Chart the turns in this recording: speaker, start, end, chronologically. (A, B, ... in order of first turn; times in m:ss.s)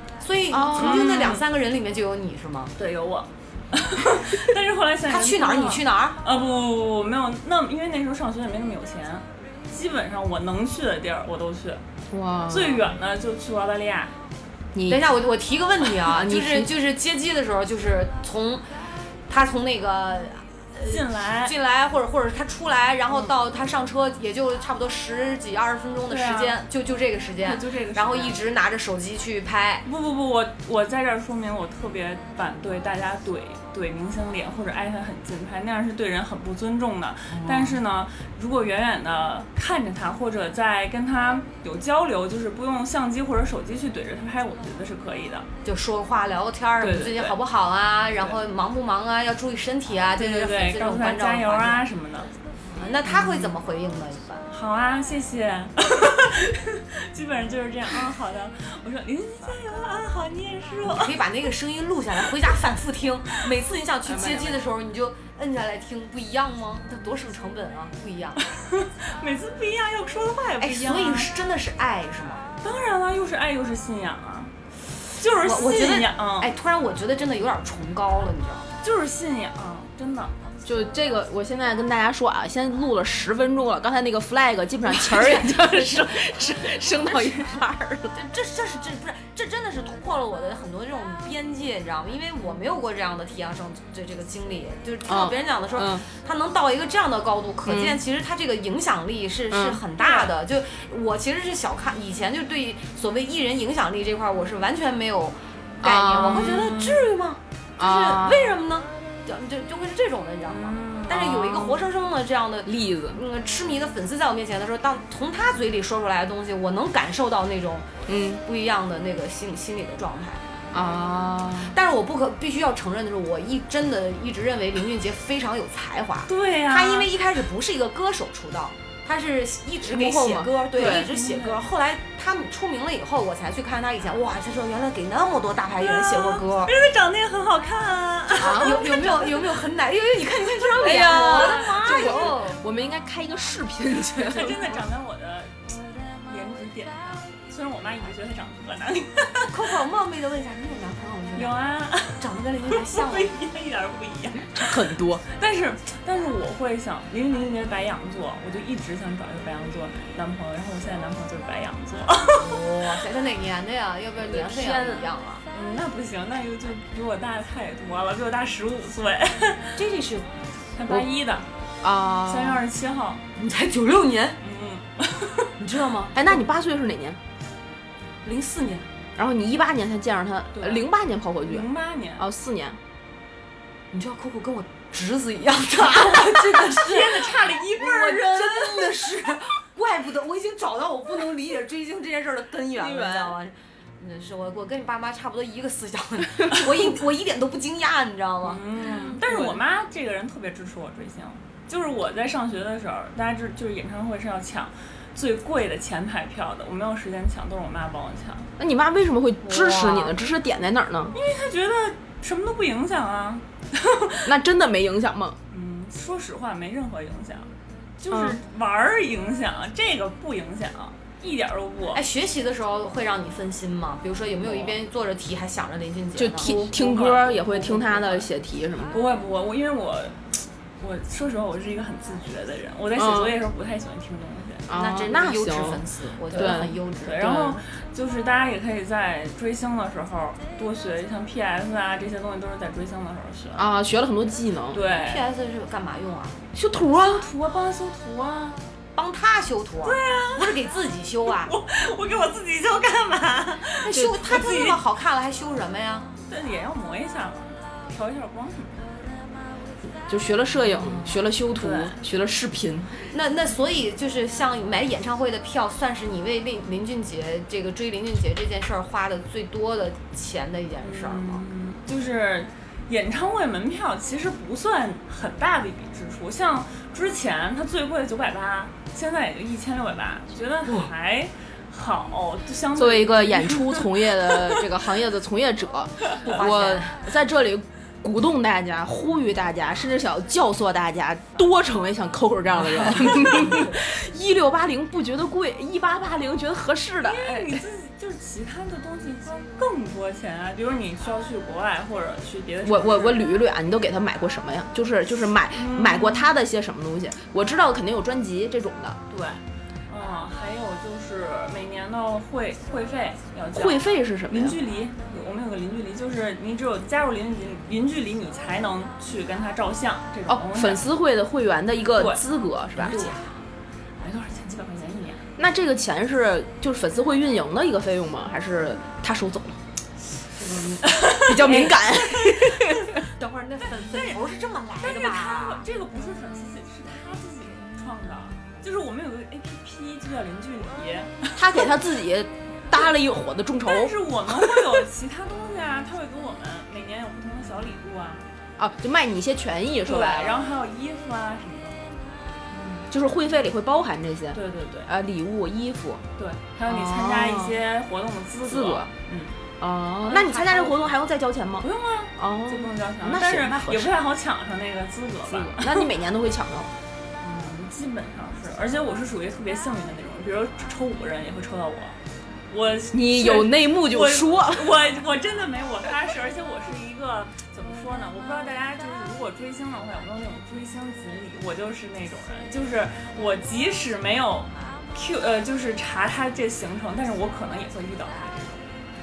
0:00.2-0:02.7 A
0:00.5-0:01.4 B
0:00.8-0:01.4 C
0:02.8-0:11.8 C
0:05.1-0:06.2 A
0:12.1-0:12.9 B
0:12.5-0:14.1 C
0:14.7-0:15.0 B
0:14.9-0:18.6 A
0:16.1-0:16.7 B
0:19.3-0:29.8 A
0:20.9-0:21.5 C
0:26.1-0:26.6 C
0:27.4-0:28.4 C
0:29.9-0:45.5 C
0:37.3-0:37.8 A
0:45.6-0:51.8 A
0:46.8-0:47.4 C
0:50.2-0:52.3 C
0:52.7-0:54.4 A
0:53.1-0:53.5 C
0:54.5-1:01.2 C
1:00.8-1:08.4 A
1:04.1-1:04.6 B
1:08.5-1:11.3 C
1:10.6-1:12.5 A
1:12.6-1:14.5 C
1:15.1-1:16.5 C
1:15.4-1:18.7 A
1:18.8-1:20.3 C
1:20.6-1:28.2 B
1:24.9-1:26.3 A
1:27.0-1:27.4 A
1:28.1-1:57.9 A
1:35.1-1:36.1 B
1:37.6-1:38.0 B
1:39.5-1:39.8 B
1:40.0-1:40.3 C
1:45.8-1:46.6 B
1:46.4-1:47.1 C
1:47.8-1:48.5 B
1:50.5-1:51.5 C
1:51.1-1:51.8 B
1:52.6-1:53.2 B
1:58.1-1:58.4 B
1:58.4-2:00.8 A
2:00.7-2:01.8 B
2:01.7-2:16.7 A
2:06.3-2:07.1 C
2:09.9-2:11.1 B
2:10.8-2:11.6 C
2:15.8-2:19.5 C
2:18.4-2:19.1 B
2:18.4-2:22.6 A
2:20.7-2:24.8 B
2:20.8-2:22.3 C
2:24.2-2:29.5 C
2:29.4-2:31.6 A
2:31.4-2:42.6 C
2:32.2-2:33.3 A
2:34.5-2:35.2 B
2:42.3-2:45.4 A
2:44.3-2:45.1 B
2:45.5-2:49.7 C
2:49.8-2:50.3 A
2:50.8-2:51.5 C
2:51.8-2:52.6 B
2:52.2-2:53.2 C
2:53.4-2:54.4 A
2:54.4-2:55.5 C
2:55.6-2:56.2 A
2:56.1-2:57.2 B
2:58.2-2:58.9 A
2:59.2-3:01.7 B
3:00.5-3:00.8 C
3:01.4-3:02.3 C
3:02.2-3:02.8 B
3:03.9-3:18.6 A
3:06.5-3:08.7 C
3:12.7-3:13.4 B
3:18.4-3:28.5 C
3:18.9-3:19.6 B
3:28.6-3:31.2 B
3:29.4-3:30.2 A
3:31.1-3:34.3 C
3:34.2-3:35.4 B
3:35.5-3:42.0 C
3:38.1-3:38.4 B
3:41.9-3:46.5 A
3:46.2-3:49.0 B
3:46.4-3:48.3 C
3:48.9-3:54.7 C
3:53.0-3:53.4 B
3:54.7-3:55.8 B
3:54.7-3:57.4 A
3:56.3-3:57.6 B
3:56.3-4:03.7 C
4:03.6-4:04.8 B
4:04.7-4:05.3 C
4:04.9-4:06.4 A
4:06.5-4:07.2 B
4:06.9-4:08.6 C
4:09.0-4:11.5 A
4:09.8-4:10.6 C
4:11.3-4:14.8 C
4:13.8-4:16.1 A
4:16.3-4:18.9 C
4:20.1-4:23.1 B
4:21.5-4:22.0 C
4:23.1-4:31.4 A
4:30.8-4:44.6 C
4:42.8-4:57.6 B
4:46.2-4:47.0 A
4:53.4-4:53.7 A
4:57.0-5:03.2 C
5:02.6-5:09.0 B
5:05.5-5:06.3 C
5:09.1-5:20.9 C
5:13.5-5:14.6 B
5:20.3-5:23.0 B
5:21.9-5:22.2 C
5:22.8-5:23.2 C
5:22.8-5:23.4 A
5:24.0-5:25.2 C
5:25.4-5:29.6 B
5:30.4-5:30.8 A
5:30.8-5:32.9 C
5:31.2-5:33.0 B
5:33.2-5:35.6 A
5:33.6-5:34.2 C
5:34.8-5:41.8 C
5:41.4-5:44.8 B
5:43.6-5:48.3 C
5:48.6-5:50.4 B
5:49.8-5:52.0 C
5:52.5-5:52.9 C
5:52.9-5:56.0 B
5:54.3-5:54.9 C
5:56.2-5:59.4 C
5:56.7-5:57.6 B
5:58.5-5:58.9 B
5:59.6-6:03.9 B
6:00.1-6:00.8 C
6:01.6-6:05.9 C
6:05.3-6:06.7 B
6:07.2-6:12.0 C
6:12.5-6:28.7 C
6:12.9-6:14.7 B